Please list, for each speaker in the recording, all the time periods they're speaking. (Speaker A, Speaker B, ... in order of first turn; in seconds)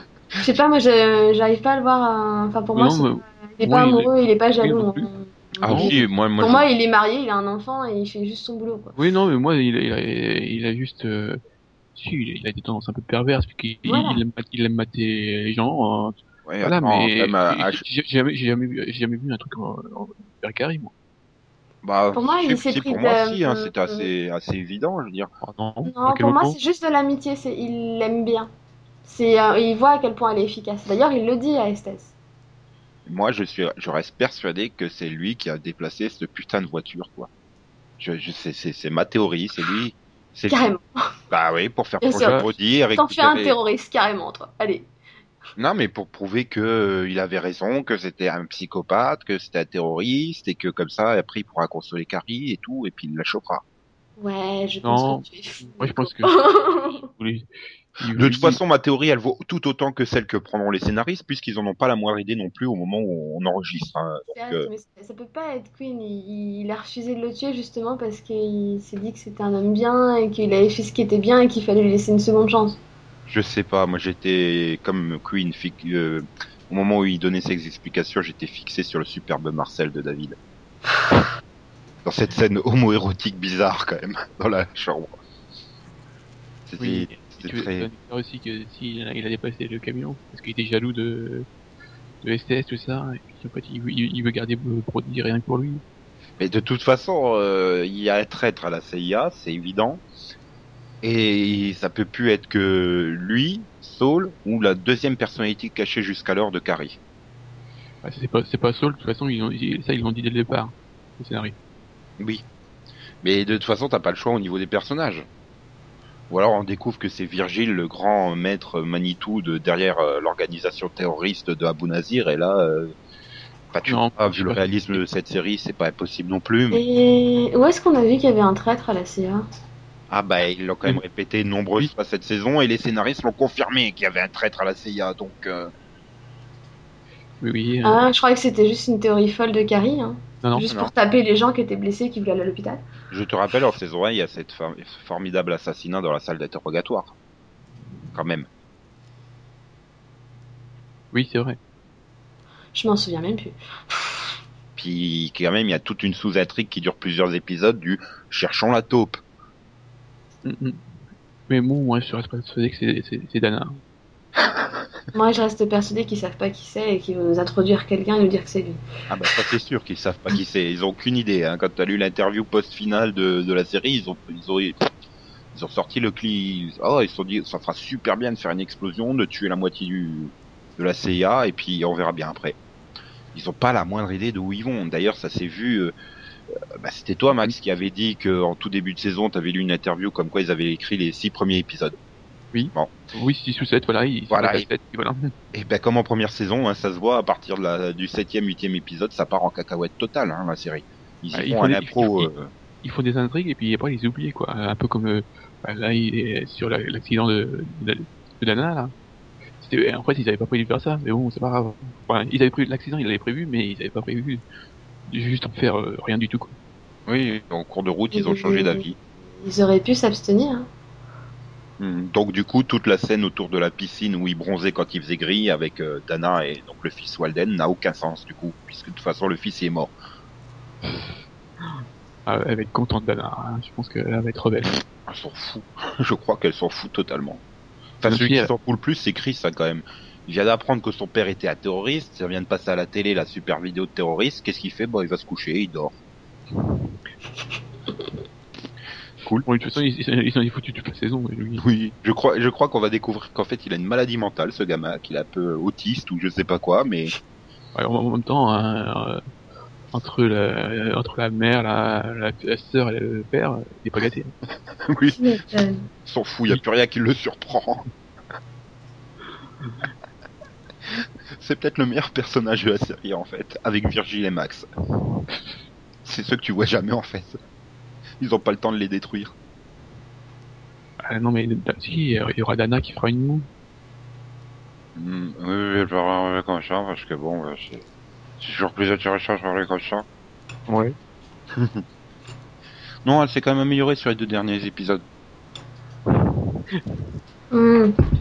Speaker A: 0.4-8.9, 13.9-14.2, 22.1-24.1, 25.9-28.5, 29.0-32.1, 40.5-41.1, 42.0-42.4, 43.0-44.9, 54.2-57.1, 64.3-72.8, 126.7-129.5, 137.8-142.8, 152.8-154.4, 165.1-168.8, 218.1-218.8, 219.4-220.7, 265.2-265.9, 297.5-297.9
Speaker B: 2.7-5.1, 5.7-6.0, 9.0-11.4, 11.9-20.9, 25.4-26.6, 54.8-56.4, 57.1-58.6, 86.8-91.5, 92.2-95.8, 108.0-111.5, 123.9-125.0, 137.4-138.0, 140.4-140.7, 151.1-151.6, 160.4-160.9, 161.5-163.8, 192.5-195.3, 201.3-202.3, 202.8-208.9, 209.6-214.4, 215.1-216.5, 230.8-234.8, 238.1-238.5, 249.5-251.6, 257.8-259.2, 259.9-264.3, 281.1-283.5, 290.7-290.9, 296.1-296.9
Speaker C: 5.6-6.6, 16.5-17.8, 21.8-25.3, 33.0-37.3, 38.0-40.7, 41.3-43.5, 45.6-53.6, 58.1-64.7, 73.3-80.4, 82.0-85.2, 86.7-87.9, 96.4-100.0, 101.0-107.0, 112.2-112.4, 113.2-115.3, 116.3-122.9, 123.7-126.8, 130.1-135.7, 140.6-140.9, 143.1-147.1, 148.1-148.5, 154.8-159.2, 169.1-174.8, 175.5-182.6, 183.3-185.9, 186.7-192.0, 194.3-194.7, 195.5-202.5, 217.1-219.0, 221.8-229.9, 235.1-237.4, 238.0-245.9, 249.2-249.5, 251.6-257.1, 264.9-265.2, 266.0-267.9, 270.9-274.6, 276.0-277.4, 278.2-279.3, 285.0-287.9, 288.4-290.1, 291.5-291.8, 293.0-295.0